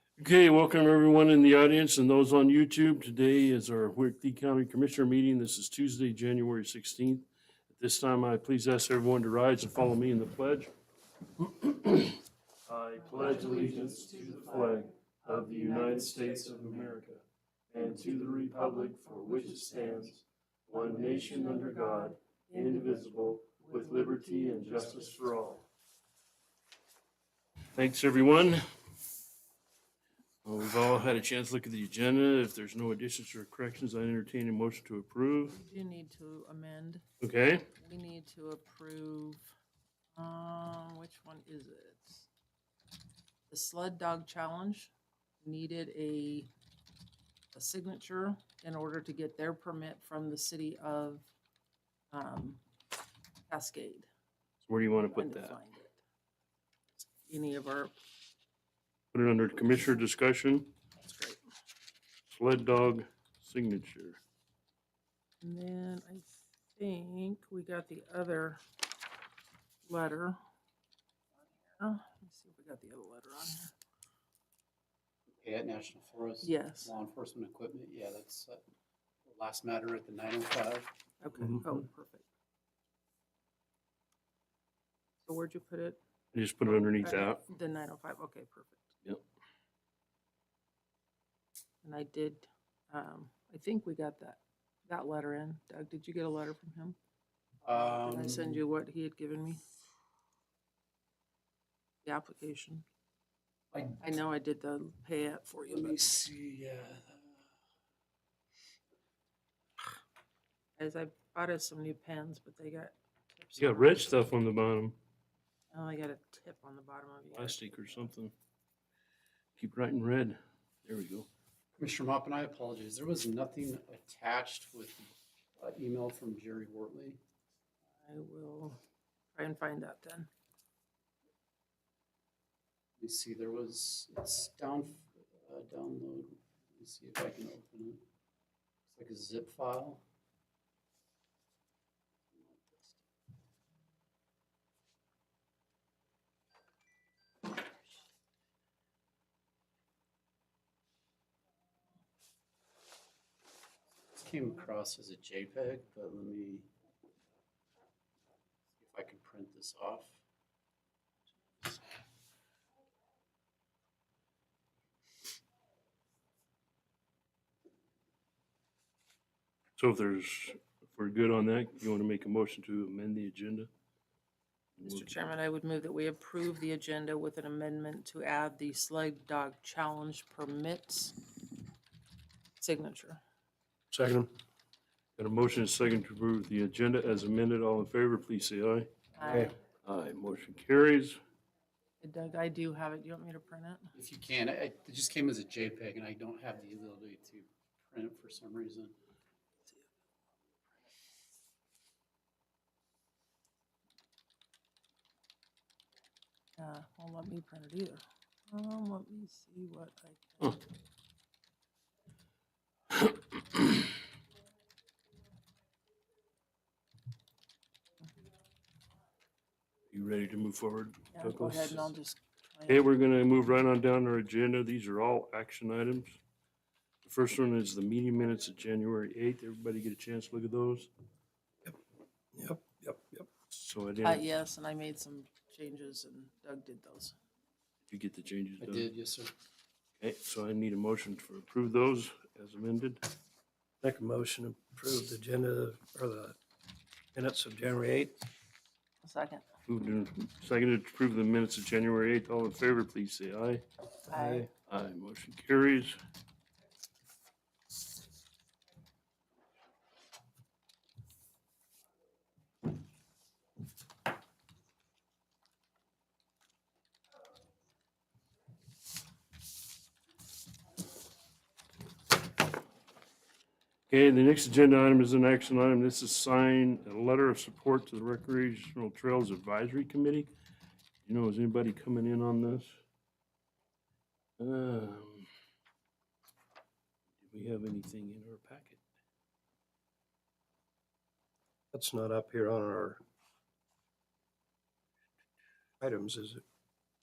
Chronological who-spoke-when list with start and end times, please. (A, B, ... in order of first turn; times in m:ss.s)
0:00.2-0:10.7 A
0:11.4-0:25.6 A
0:27.8-0:28.6 A
0:30.4-0:35.6 A
0:35.5-0:37.0 B
0:37.2-0:37.7 A
0:37.8-0:39.5 B
0:40.2-0:42.3 B
0:43.5-0:44.9 B
0:45.4-0:46.5 B
0:47.5-0:51.3 B
0:52.1-0:52.6 B
0:53.5-0:54.1 B
0:54.7-0:55.6 A
0:55.1-0:56.0 B
0:57.1-0:57.9 B
0:59.1-1:00.7 A
1:01.0-1:01.4 B
1:02.3-1:04.2 A
1:05.4-1:08.6 B
1:09.9-1:10.4 B
1:11.7-1:13.7 B
1:15.3-1:18.6 C
1:16.4-1:16.9 B
1:19.2-1:21.0 C
1:21.2-1:22.3 B
1:25.3-1:26.0 B
1:26.3-1:27.4 A
1:26.7-1:28.9 B
1:31.8-1:37.0 B
1:37.6-1:38.6 C
1:38.0-1:39.6 B
1:42.0-1:42.8 B
1:43.7-1:44.0 C
1:44.0-1:46.0 B
1:45.7-1:47.3 C
1:50.8-1:54.1 B
1:53.6-1:55.0 A
1:55.7-1:58.0 B
1:57.3-1:58.3 A
1:59.6-2:01.3 A
2:01.8-2:07.2 C
2:08.0-2:08.8 B
2:09.4-2:10.3 B
2:13.0-2:18.0 C
2:18.9-2:20.0 C
2:22.4-2:23.0 C
2:34.1-2:36.7 C
2:38.8-2:40.2 C
2:49.8-2:53.7 A
2:54.8-2:55.1 A
2:54.8-3:01.2 B
3:02.6-3:03.2 B
3:03.9-3:04.3 D
3:05.2-3:09.0 A
3:09.1-3:09.6 B
3:09.3-3:09.5 D
3:09.8-3:11.2 A
3:12.0-3:13.9 B
3:13.9-3:18.9 C
3:26.6-3:30.6 B
3:33.0-3:33.6 A
3:39.9-3:41.9 A
3:41.1-3:42.8 B
3:42.7-3:46.2 A
3:47.0-3:50.9 A
3:52.3-3:53.3 D
3:53.5-3:54.2 A
3:54.0-3:57.2 B
3:57.9-3:58.9 A
3:58.6-3:59.3 C
4:00.0-4:03.0 A
4:03.8-4:06.4 D
4:07.1-4:08.2 D
4:09.0-4:09.5 B
4:09.7-4:13.6 A
4:14.1-4:14.5 D
4:14.1-4:14.5 B
4:14.6-4:16.0 A
4:33.9-4:40.3 A
4:41.1-4:42.8 A
4:44.4-4:45.3 A
4:47.2-4:48.8 A
4:51.7-4:53.0 D
4:55.8-4:56.4 D